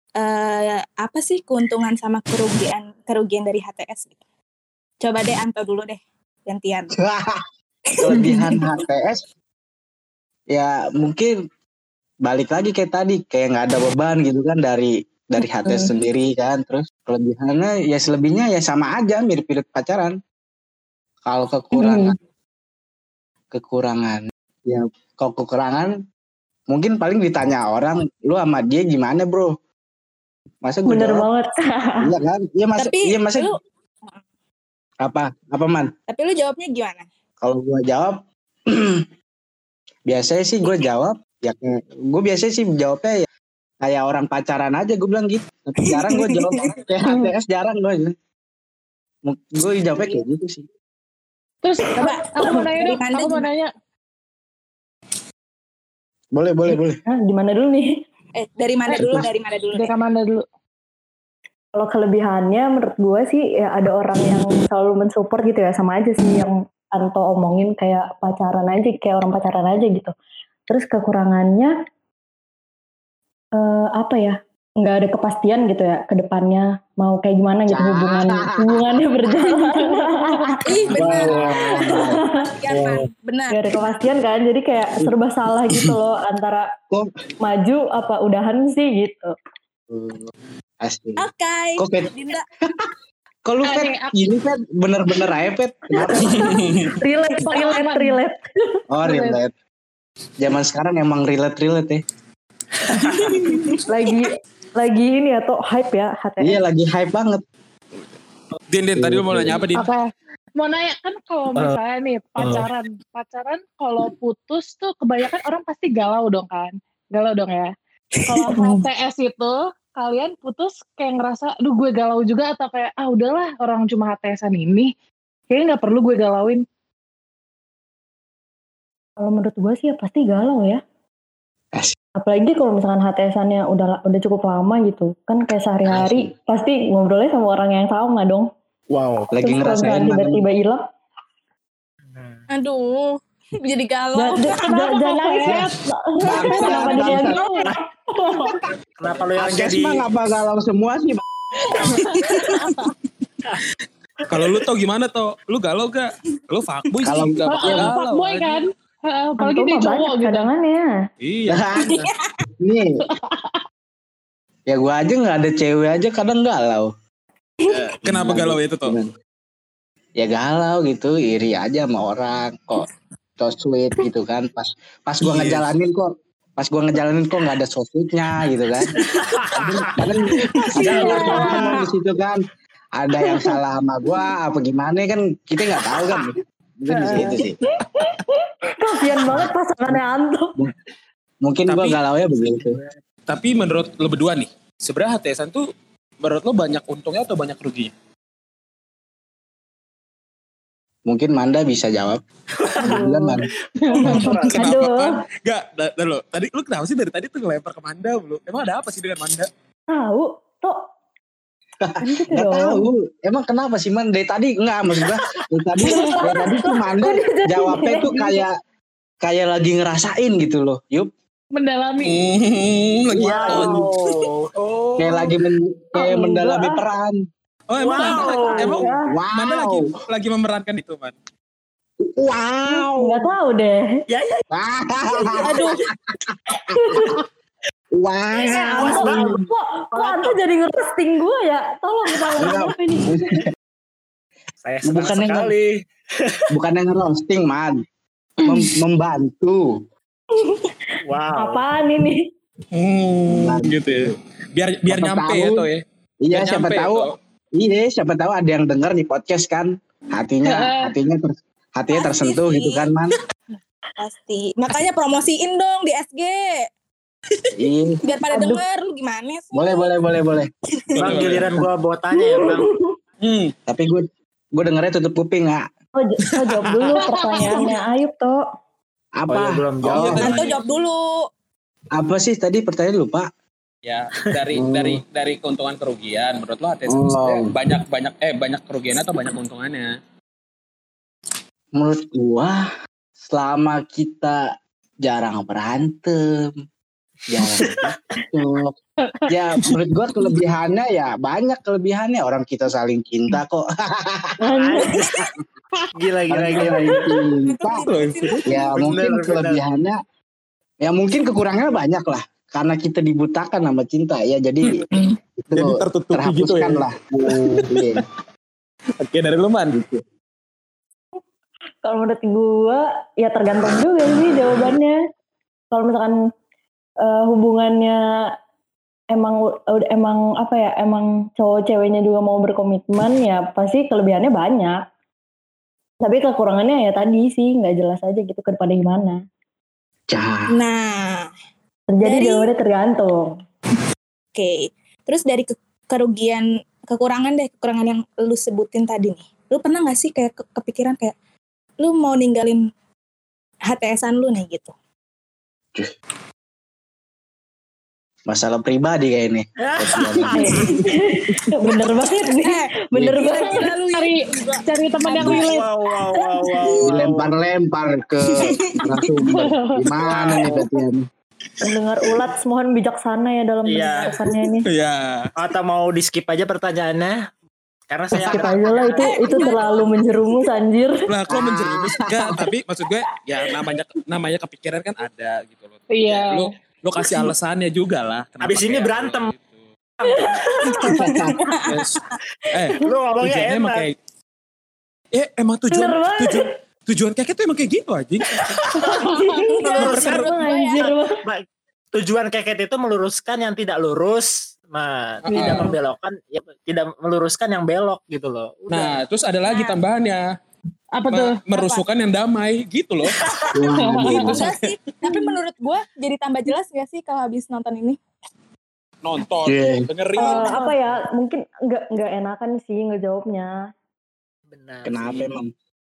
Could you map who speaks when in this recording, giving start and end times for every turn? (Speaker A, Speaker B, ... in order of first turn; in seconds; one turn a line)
Speaker A: 0.2-4.2
Speaker A: 5.0-6.9
Speaker B: 7.0-7.4
Speaker A: 7.9-8.3
Speaker B: 8.0-9.2
Speaker B: 10.5-11.3
Speaker B: 12.2-20.1
Speaker B: 21.2-22.1
Speaker C: 21.8-22.1
Speaker B: 23.5-25.9
Speaker B: 26.7-29.5
Speaker B: 30.6-31.3
Speaker C: 30.9-31.9
Speaker B: 32.0-33.5
Speaker A: 32.8-34.2
Speaker B: 35.0-35.9
Speaker A: 36.1-37.1
Speaker B: 37.4-38.2
Speaker B: 38.7-39.0
Speaker B: 40.1-43.2
Speaker B: 43.8-48.1
Speaker A: 46.0-46.7
Speaker B: 49.2-50.6
Speaker A: 50.0-50.2
Speaker D: 51.6-53.7
Speaker A: 52.0-53.5
Speaker B: 56.3-57.0
Speaker C: 57.1-57.9
Speaker A: 58.4-59.9
Speaker D: 58.9-60.4
Speaker C: 61.8-70.1
Speaker C: 70.7-71.7
Speaker C: 73.6-80.6
Speaker B: 77.7-79.0
Speaker D: 79.7-79.9
Speaker A: 80.6-83.6
Speaker B: 80.9-82.2
Speaker C: 81.5-82.5
Speaker C: 83.5-86.7
Speaker C: 87.4-89.3
Speaker B: 89.9-90.3
Speaker B: 90.8-91.2
Speaker A: 91.2-92.5
Speaker B: 91.8-92.1
Speaker B: 93.4-96.5
Speaker D: 93.6-94.1
Speaker C: 96.0-98.4
Speaker E: 96.2-96.9
Speaker D: 97.5-98.2
Speaker B: 98.9-99.5
Speaker D: 99.0-99.4
Speaker B: 100.4-102.0
Speaker E: 103.1-103.8
Speaker C: 103.9-106.6
Speaker B: 106.4-107.4
Speaker E: 108.7-109.9
Speaker B: 109.0-109.7
Speaker D: 109.7-117.7
Speaker F: 112.4-112.7
Speaker D: 118.3-124.9
Speaker D: 125.5-126.6
Speaker C: 129.2-130.8
Speaker C: 132.2-138.5
Speaker B: 135.9-136.3
Speaker F: 138.9-139.3
Speaker B: 139.3-140.4
Speaker C: 139.4-140.8
Speaker F: 142.1-142.4
Speaker A: 142.5-144.9
Speaker C: 144.1-148.6
Speaker D: 144.9-145.7
Speaker B: 146.2-147.4
Speaker D: 146.3-147.7
Speaker F: 149.0-150.1
Speaker B: 149.4-151.2
Speaker E: 152.2-152.7
Speaker D: 152.6-152.9
Speaker E: 154.3-158.6
Speaker B: 157.0-157.9
Speaker D: 157.4-160.5
Speaker C: 159.4-160.9
Speaker E: 161.2-162.1
Speaker B: 161.5-161.9
Speaker A: 161.8-162.4
Speaker B: 162.6-162.9
Speaker D: 163.1-163.6
Speaker B: 164.7-166.9
Speaker E: 167.7-169.0
Speaker B: 168.0-169.1
Speaker B: 170.2-172.9
Speaker B: 173.4-176.1
Speaker E: 175.2-175.7
Speaker B: 176.6-178.9
Speaker F: 179.0-180.0
Speaker B: 179.6-182.4
Speaker A: 180.8-181.4
Speaker F: 180.8-181.8
Speaker C: 180.9-181.8
Speaker B: 183.0-187.5
Speaker C: 186.9-187.4
Speaker C: 188.8-190.5
Speaker B: 191.4-192.8
Speaker E: 191.7-192.0
Speaker F: 192.4-192.8
Speaker E: 193.3-195.6
Speaker E: 196.2-197.9
Speaker B: 201.1-202.2
Speaker F: 202.6-203.0
Speaker C: 202.8-203.4
Speaker B: 202.8-203.4
Speaker F: 203.9-204.7
Speaker C: 203.9-205.1
Speaker E: 204.1-209.5
Speaker C: 209.9-210.8
Speaker B: 211.8-218.5
Speaker C: 212.0-212.8
Speaker C: 215.9-218.4
Speaker B: 219.2-221.1
Speaker D: 221.5-222.2
Speaker E: 222.0-223.9
Speaker F: 223.2-224.5
Speaker B: 223.2-223.8
Speaker E: 224.6-225.3
Speaker B: 225.0-227.2
Speaker C: 226.0-226.8
Speaker E: 227.7-231.1
Speaker F: 227.8-228.9
Speaker C: 228.0-229.1
Speaker B: 229.1-229.9
Speaker B: 232.0-233.2
Speaker C: 232.7-233.8
Speaker F: 234.1-234.4
Speaker B: 234.5-235.6
Speaker F: 235.1-235.8
Speaker A: 235.4-235.7
Speaker B: 236.3-236.8
Speaker C: 236.8-237.2
Speaker B: 238.0-239.4
Speaker F: 238.4-240.4
Speaker C: 238.6-243.2
Speaker B: 242.4-243.4
Speaker F: 244.6-245.7
Speaker B: 244.8-245.5
Speaker B: 246.5-247.8
Speaker B: 248.4-249.6
Speaker C: 250.4-250.7
Speaker F: 251.1-251.6
Speaker C: 251.3-252.2
Speaker E: 252.7-255.8
Speaker B: 253.3-254.1
Speaker B: 254.9-255.7
Speaker B: 256.2-263.1
Speaker E: 256.3-257.1
Speaker D: 260.4-260.9
Speaker A: 261.9-262.9
Speaker A: 264.0-266.6
Speaker B: 267.6-268.0
Speaker A: 268.0-269.9
Speaker C: 268.3-268.6
Speaker B: 269.5-270.5
Speaker A: 270.9-271.3
Speaker F: 270.9-272.7
Speaker E: 271.0-271.6
Speaker C: 272.2-272.9
Speaker E: 273.2-273.5
Speaker B: 273.7-275.6
Speaker C: 276.0-278.4
Speaker D: 277.0-277.7
Speaker B: 279.2-280.3
Speaker F: 279.3-280.4
Speaker E: 279.9-280.6
Speaker A: 280.0-281.0
Speaker B: 281.9-283.3
Speaker E: 283.8-289.9
Speaker B: 284.5-285.0
Speaker B: 286.9-287.4
Speaker B: 291.8-292.6
Speaker B: 293.2-294.4
Speaker B: 295.0-296.5
Speaker B: 297.3-298.7
Speaker B: 299.3-304.3
Speaker C: 304.4-305.0
Speaker F: 304.6-305.2
Speaker F: 306.0-307.0
Speaker B: 306.3-307.8
Speaker A: 307.5-308.6
Speaker E: 307.9-308.5
Speaker B: 308.5-310.0
Speaker F: 308.7-309.6
Speaker B: 310.8-314.8
Speaker E: 314.7-317.8
Speaker B: 315.5-318.0
Speaker E: 319.0-319.8
Speaker B: 319.7-320.0
Speaker C: 321.8-324.9
Speaker C: 325.7-326.1
Speaker C: 327.0-328.0
Speaker C: 329.1-334.8
Speaker C: 336.0-339.2
Speaker B: 340.1-340.6
Speaker A: 340.5-341.3
Speaker C: 341.9-343.3
Speaker A: 342.0-342.5
Speaker A: 344.3-351.1
Speaker A: 351.8-352.6
Speaker A: 353.7-354.7
Speaker B: 358.3-360.6
Speaker F: 359.6-360.6
Speaker C: 360.3-363.7
Speaker A: 362.1-364.6
Speaker B: 362.9-363.2
Speaker D: 363.8-365.8
Speaker F: 365.1-367.3
Speaker B: 365.1-365.5
Speaker B: 366.8-371.0
Speaker D: 369.3-369.8
Speaker F: 370.0-370.7
Speaker C: 371.6-374.7
Speaker F: 373.6-374.2
Speaker E: 374.6-375.2
Speaker F: 375.4-377.1
Speaker F: 377.9-379.5
Speaker C: 378.2-381.0
Speaker A: 378.9-380.4
Speaker E: 381.0-389.6
Speaker B: 381.3-382.3
Speaker D: 385.9-386.5
Speaker F: 388.4-389.3
Speaker F: 390.0-390.7
Speaker C: 390.1-390.9
Speaker B: 390.8-391.4
Speaker A: 390.8-392.1
Speaker E: 391.7-394.0
Speaker F: 392.8-393.9
Speaker E: 395.1-398.6
Speaker C: 395.7-396.5
Speaker C: 398.8-401.1
Speaker A: 399.0-400.9
Speaker F: 399.6-409.0
Speaker E: 399.8-400.3
Speaker E: 405.3-405.7
Speaker C: 405.3-405.8
Speaker E: 408.7-410.2
Speaker A: 409.4-409.8
Speaker D: 410.9-411.4
Speaker E: 411.1-413.1
Speaker A: 411.5-411.8
Speaker F: 413.1-413.5
Speaker B: 413.5-414.4
Speaker D: 413.8-414.3
Speaker A: 414.0-418.0
Speaker E: 414.1-414.6
Speaker D: 415.1-415.4
Speaker E: 419.0-420.6
Speaker B: 419.4-419.9
Speaker C: 420.2-423.5
Speaker A: 420.2-420.5
Speaker D: 420.4-420.8
Speaker F: 424.5-425.3
Speaker B: 424.8-425.5